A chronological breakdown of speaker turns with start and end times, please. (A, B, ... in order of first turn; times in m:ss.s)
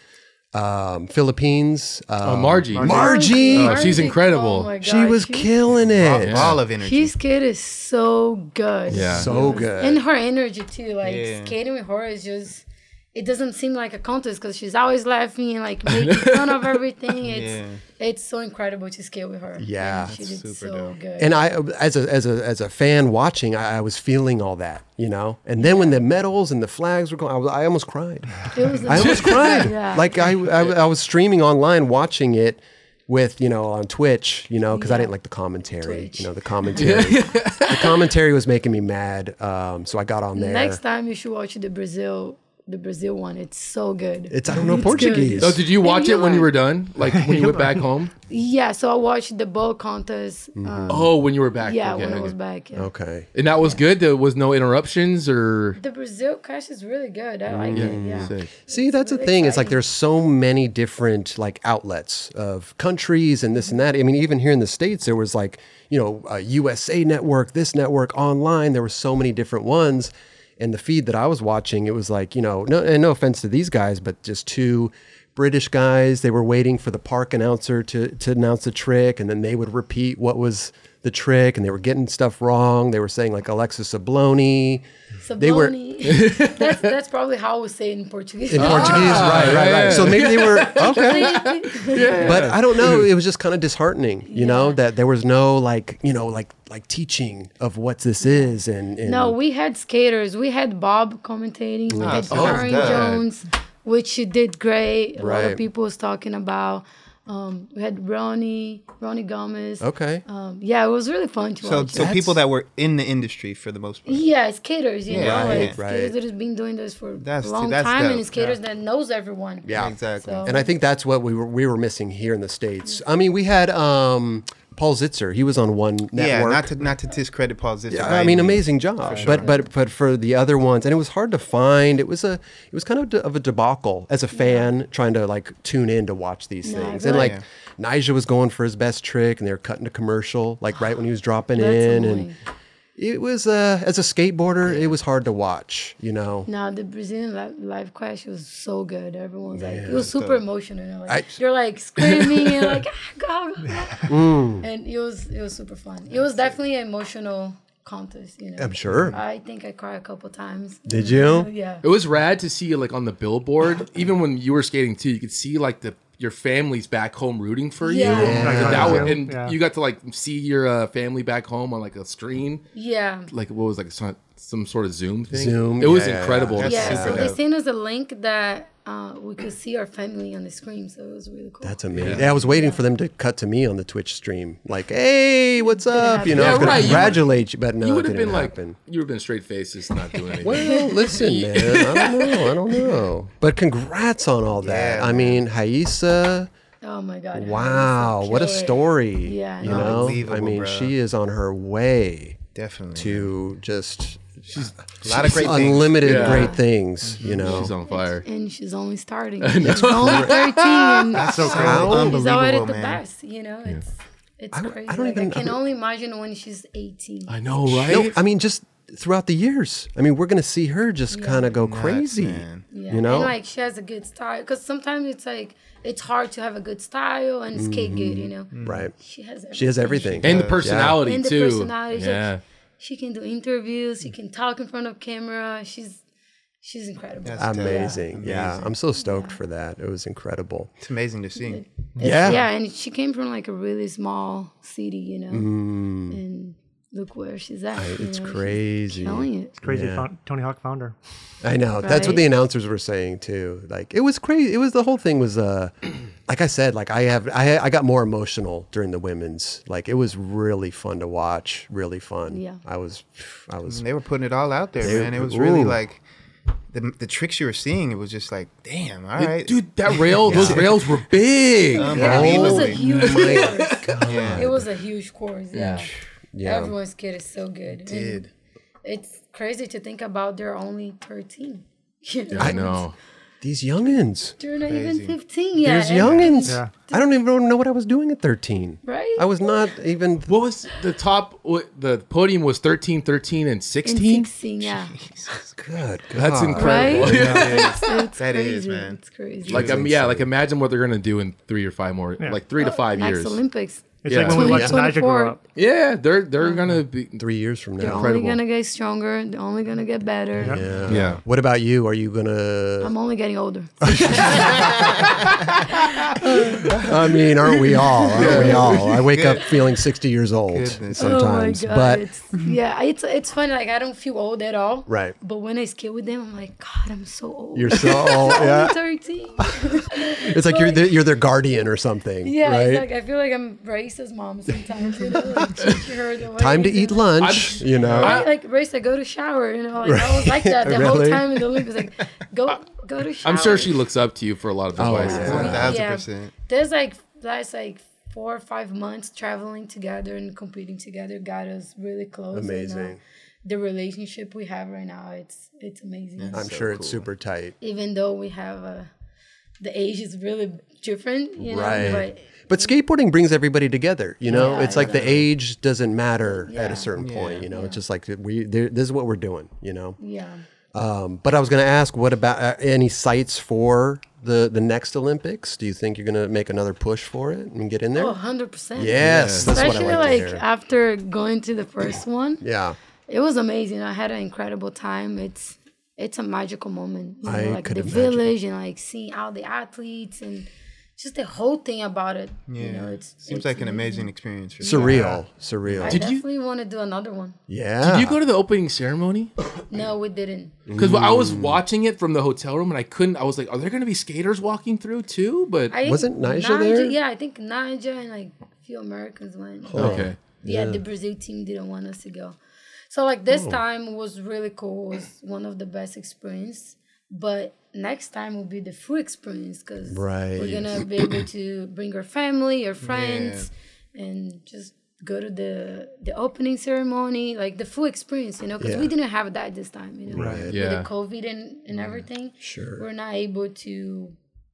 0:00.5-0:04.0 A
0:02.2-0:04.7 B
0:02.8-0:03.2 C
0:02.8-0:05.5 D
0:04.8-0:06.6 A
0:06.0-0:07.2 C
0:06.2-0:06.6 B
0:06.8-0:21.3 D
0:08.9-0:10.0 A
0:08.9-0:09.3 B
0:09.1-0:09.8 C
0:11.0-0:11.5 C
0:15.8-0:16.8 B
0:17.2-0:17.8 C
0:19.6-0:20.1 A
0:20.0-0:21.0 C
0:21.2-0:40.8 A
0:25.6-0:26.0 D
0:28.5-0:30.3 D
0:28.9-0:29.7 B
0:34.7-0:35.1 D
0:35.8-0:36.8 D
0:36.8-0:38.0 B
0:40.3-0:46.5 D
0:44.3-0:45.6 A
0:45.4-0:48.1 B
0:47.3-0:47.7 E
0:48.3-0:52.9 D
0:50.6-0:51.1 A
0:50.9-0:52.4 B
0:52.7-0:53.3 A
0:53.3-0:55.8 B
0:55.8-0:59.8 D
0:57.5-1:24.8 A
0:57.7-0:58.5 B
1:25.2-1:32.5 D
1:25.4-1:25.7 A
1:26.0-1:26.9 B
1:28.5-1:31.5 A
1:28.5-1:33.1 B
1:32.1-1:39.4 A
1:34.3-1:34.8 D
1:38.2-1:52.3 D
1:41.9-1:43.2 A
1:42.0-1:43.2 C
1:42.3-1:43.2 B
1:45.2-1:45.6 A
1:49.8-1:50.2 A
1:51.6-1:54.2 C
1:52.0-1:52.4 A
1:54.1-2:00.7 D
1:55.1-1:55.8 C
1:55.1-1:56.1 A
1:57.2-1:58.5 C
1:59.6-2:06.7 A
1:59.7-2:00.5 C
2:06.1-2:09.6 C
2:07.9-2:22.3 A
2:09.3-2:09.6 D
2:14.3-2:14.7 D
2:16.6-2:17.4 D
2:17.0-2:17.4 C
2:21.6-2:22.3 D
2:23.0-2:26.5 A
2:26.4-2:41.8 D
2:29.5-2:30.1 A
2:29.9-2:30.4 C
2:31.1-2:31.4 A
2:32.0-2:32.8 B
2:34.0-2:34.7 A
2:38.6-2:39.2 A
2:40.9-2:41.5 A
2:41.8-2:52.6 B
2:47.8-2:48.8 D
2:48.0-2:49.2 A
2:48.3-2:49.6 E
2:52.7-2:53.3 D
2:53.3-2:57.3 B
2:55.3-2:57.2 A
2:55.9-2:57.4 C
2:56.6-3:02.8 D
3:01.6-3:08.8 A
3:01.9-3:02.2 B
3:02.1-3:02.4 C
3:05.9-3:07.2 D
3:06.2-3:12.8 B
3:10.1-3:10.5 C
3:10.4-3:16.5 A
3:10.6-3:11.2 D
3:14.6-3:15.4 C
3:16.8-3:20.1 D
3:17.3-3:22.4 A
3:19.6-3:20.9 C
3:22.5-3:23.3 C
3:22.9-3:27.7 A
3:24.5-3:26.5 B
3:25.0-3:26.5 C
3:26.2-3:26.6 D
3:27.0-3:27.7 C
3:27.2-3:28.2 B
3:27.8-3:37.3 D
3:29.4-3:31.5 B
3:29.6-3:30.4 A
3:31.1-3:33.0 C
3:31.3-3:32.0 E
3:31.4-3:32.2 A
3:34.5-3:35.6 A
3:37.3-3:38.2 B
3:37.6-3:43.3 A
3:41.1-3:41.5 D
3:41.6-3:42.6 C
3:42.7-3:50.4 D
3:47.5-3:48.9 A
3:48.5-3:48.9 C
3:49.5-3:51.0 A
3:50.2-3:50.7 C
3:50.2-3:52.4 B
3:51.0-3:56.0 D
3:56.6-3:58.0 D
3:57.2-3:58.7 C
3:57.4-4:00.7 A
3:59.0-3:59.4 D
4:00.8-4:01.6 C
4:01.5-4:05.5 D
4:02.0-4:02.3 E
4:02.0-4:02.4 A
4:05.3-4:06.2 A
4:06.1-4:09.5 D
4:07.8-4:10.1 A
4:09.6-4:10.9 E
4:11.4-4:23.8 A
4:11.8-4:12.3 D
4:22.3-4:22.6 D
4:23.7-4:26.0 C
4:24.8-4:25.8 A
4:26.7-4:30.7 C
4:29.2-4:34.1 B
4:30.2-4:34.7 A
4:31.7-4:35.9 D
4:31.8-4:32.8 C
4:34.0-4:34.5 C
4:35.5-4:36.7 A
4:36.4-4:38.3 D
4:37.8-4:38.3 C
4:38.8-4:42.8 D
4:42.3-4:42.9 B
4:42.4-4:42.7 A
4:43.4-4:44.4 A
4:44.4-4:47.1 D
4:44.6-4:45.2 C
4:45.6-4:50.4 A
4:46.0-4:46.4 C
4:46.4-4:46.7 E
4:48.8-4:49.5 D
4:50.3-4:54.3 B
4:53.8-4:54.9 D
4:54.6-4:55.8 C
4:55.6-4:57.4 A
4:56.1-4:57.9 B
4:56.6-4:59.8 D
4:57.0-5:00.2 C
4:59.5-5:03.4 B
5:02.6-5:05.4 D
5:04.0-5:05.4 E
5:04.0-5:04.6 B
5:04.4-5:04.8 A
5:05.5-5:08.4 B
5:07.2-5:08.1 A
5:07.8-5:10.6 D
5:10.4-5:10.7 E
5:10.4-5:12.9 A
5:10.7-5:11.1 C
5:10.8-5:11.2 B
5:12.8-5:14.7 D
5:13.8-5:15.0 A
5:14.3-5:14.8 C
5:15.8-5:16.8 D
5:15.8-5:16.1 B
5:16.2-5:22.1 A
5:17.4-5:19.1 B
5:17.9-5:18.5 D
5:18.2-5:19.6 C
5:20.5-5:21.3 C
5:21.0-5:31.0 D
5:24.9-5:25.1 A
5:27.5-5:28.8 A
5:30.2-5:32.8 A
5:32.2-5:43.8 D
5:35.1-5:35.4 A
5:35.6-5:35.8 B
5:36.4-5:38.2 A
5:37.2-5:38.3 B
5:37.8-5:38.1 C
5:39.8-5:41.7 A
5:43.2-5:45.8 B
5:44.8-5:45.7 A
5:44.9-5:56.5 D
5:45.0-5:46.3 C
5:52.3-5:53.0 A
5:56.2-5:57.0 C
5:56.3-5:57.5 A
5:57.6-5:58.9 D
5:59.6-6:02.7 D
6:01.4-6:10.0 A
6:04.3-6:05.1 D
6:04.3-6:05.2 C
6:06.2-6:06.9 D
6:07.0-6:07.5 C
6:07.5-6:07.8 D
6:10.0-6:10.4 D
6:10.7-6:18.2 A
6:17.9-6:22.4 D
6:18.7-6:20.4 A
6:18.9-6:19.9 B
6:22.4-6:22.8 A
6:23.1-6:35.1 D
6:27.2-6:28.3 A
6:32.5-6:35.9 C
6:34.6-6:36.0 A
6:35.8-6:37.4 D
6:35.8-6:36.2 B
6:37.5-6:38.2 A
6:37.8-6:39.3 B
6:39.7-6:40.6 D
6:40.7-6:41.6 A
6:40.8-6:45.7 B
6:45.7-6:52.4 D
6:45.8-6:47.0 A
6:49.7-6:50.8 A
6:49.7-6:50.2 B
6:52.9-7:14.1 D
6:53.3-6:53.6 A
6:59.9-7:01.1 A
7:02.8-7:03.5 C
7:08.6-7:08.9 A
7:10.1-7:10.6 A
7:10.2-7:10.4 E
7:10.5-7:10.9 B
7:12.4-7:12.8 A